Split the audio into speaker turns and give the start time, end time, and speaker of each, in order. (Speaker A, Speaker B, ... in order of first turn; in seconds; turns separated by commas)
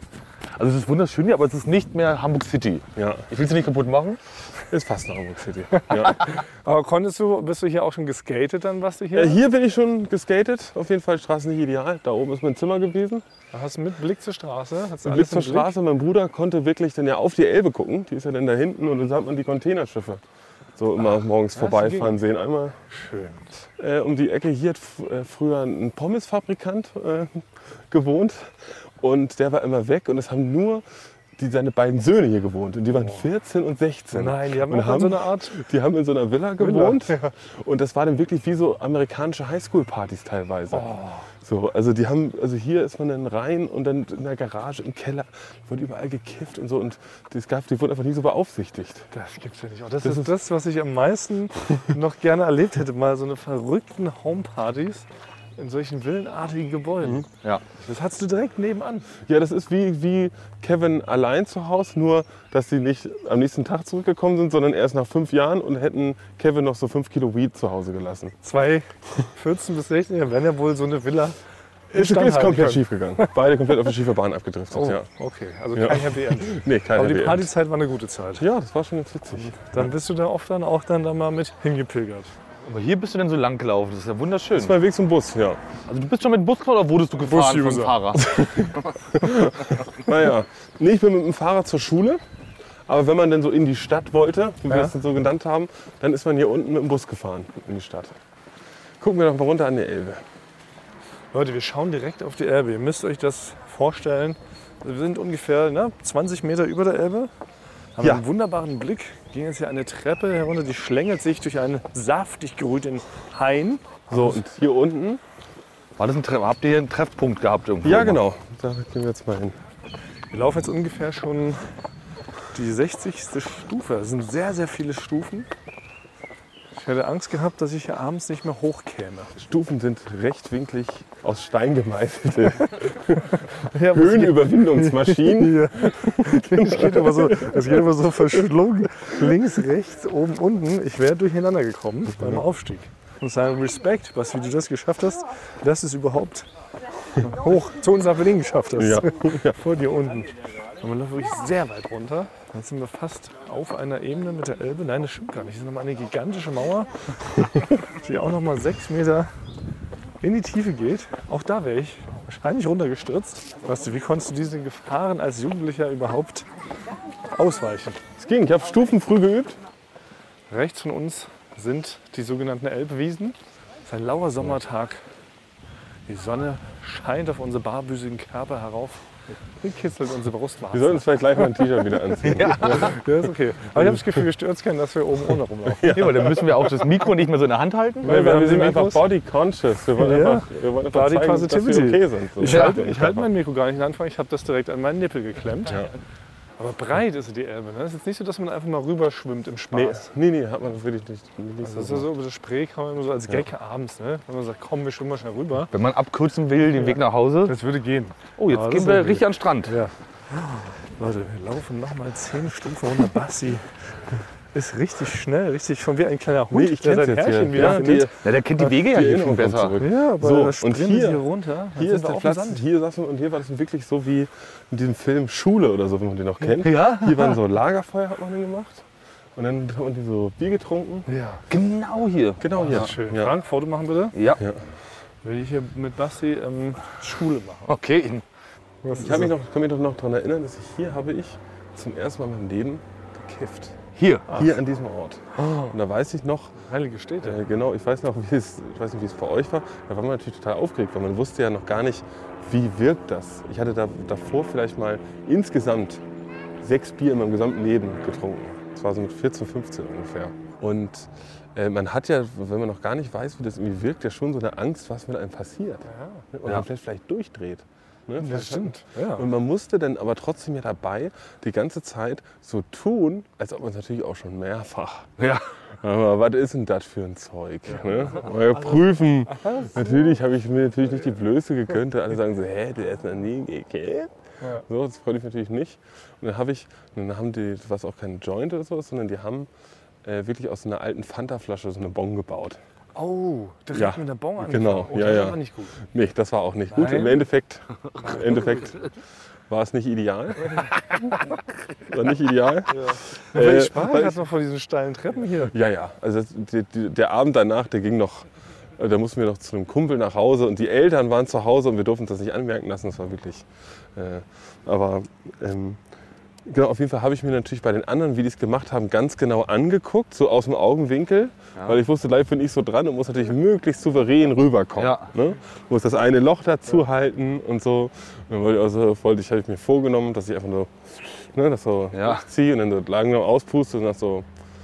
Speaker A: 0.6-4.2, Speaker B: 3.0-3.2, Speaker B: 4.7-6.2, Speaker C: 5.7-9.4, Speaker B: 9.1-13.2, Speaker C: 13.5-15.7, Speaker B: 15.0-20.2, Speaker B: 20.8-22.8, Speaker C: 21.5-22.1, Speaker C: 22.9-23.4, Speaker B: 23.8-30.8, Speaker B: 31.4-40.9, Speaker C: 34.1-35.6, Speaker C: 36.6-37.3, Speaker C: 40.7-41.2, Speaker B: 41.4-49.1, Speaker C: 49.1-57.2, Speaker B: 50.0-50.3, Speaker C: 57.8-59.1, Speaker B: 59.2-68.3, Speaker C: 68.4-71.3, Speaker C: 71.9-73.3, Speaker B: 71.9-75.0, Speaker C: 74.7-78.4, Speaker B: 75.7-77.5, Speaker B: 78.4-79.9, Speaker C: 79.6-82.3, Speaker A: 82.6-84.8, Speaker B: 84.5-85.6, Speaker A: 85.9-88.9, Speaker C: 87.2-88.0, Speaker B: 88.2-92.2, Speaker B: 92.9-98.2, Speaker C: 94.7-94.9, Speaker B: 99.0-100.2, Speaker C: 101.3-107.3, Speaker C: 108.0-114.4, Speaker B: 114.1-115.2, Speaker A: 116.0-118.2, Speaker B: 117.8-119.6, Speaker C: 120.3-121.6, Speaker C: 122.5-125.5, Speaker C: 126.7-129.3, Speaker B: 129.3-138.4, Speaker C: 133.5-146.4, Speaker C: 147.2-156.9, Speaker B: 148.8-149.6, Speaker C: 157.7-159.3, Speaker C: 160.2-166.4, Speaker C: 167.3-168.0, Speaker B: 168.2-169.6, Speaker C: 170.5-173.3, Speaker C: 173.8-175.0, Speaker C: 176.1-179.0, Speaker C: 179.6-181.6, Speaker B: 180.7-183.0, Speaker A: 182.2-182.9, Speaker C: 182.4-186.0, Speaker B: 183.7-184.2, Speaker B: 185.7-186.6, Speaker A: 185.8-188.1, Speaker B: 188.0-193.3, Speaker C: 188.0-189.1, Speaker C: 189.9-195.9, Speaker A: 192.4-192.8, Speaker C: 196.6-200.1, Speaker B: 199.7-202.1, Speaker C: 201.6-205.7, Speaker A: 205.7-207.6, Speaker C: 206.8-213.6, Speaker A: 208.4-209.7, Speaker C: 214.5-218.1, Speaker B: 216.5-221.2, Speaker A: 217.6-219.7, Speaker C: 219.8-222.6, Speaker B: 221.7-228.8, Speaker A: 226.6-227.4, Speaker B: 229.3-231.1, Speaker C: 231.1-231.4, Speaker A: 231.5-232.8, Speaker B: 232.4-233.3, Speaker C: 232.5-234.1, Speaker A: 234.1-234.4, Speaker C: 235.2-237.7, Speaker A: 237.7-238.2, Speaker C: 238.8-239.3, Speaker B: 239.0-243.8, Speaker A: 244.0-244.3, Speaker B: 244.3-246.6, Speaker C: 246.7-247.4, Speaker B: 247.2-256.0, Speaker B: 256.6-275.2, Speaker C: 265.9-266.2, Speaker C: 268.2-269.3, Speaker A: 275.2-275.4, Speaker B: 275.8-284.1, Speaker C: 278.2-278.8, Speaker C: 279.3-279.8, Speaker B: 284.7-289.5, Speaker B: 290.0-292.6, Speaker C: 292.9-295.7, Speaker B: 293.7-298.9, Speaker C: 296.7-297.2, Speaker B: 299.5-301.1, Speaker B: 301.8-304.2, Speaker C: 302.7-305.5, Speaker B: 305.5-308.2, Speaker B: 308.8-315.8, Speaker B: 316.4-334.2, Speaker A: 324.8-325.1, Speaker A: 331.9-332.2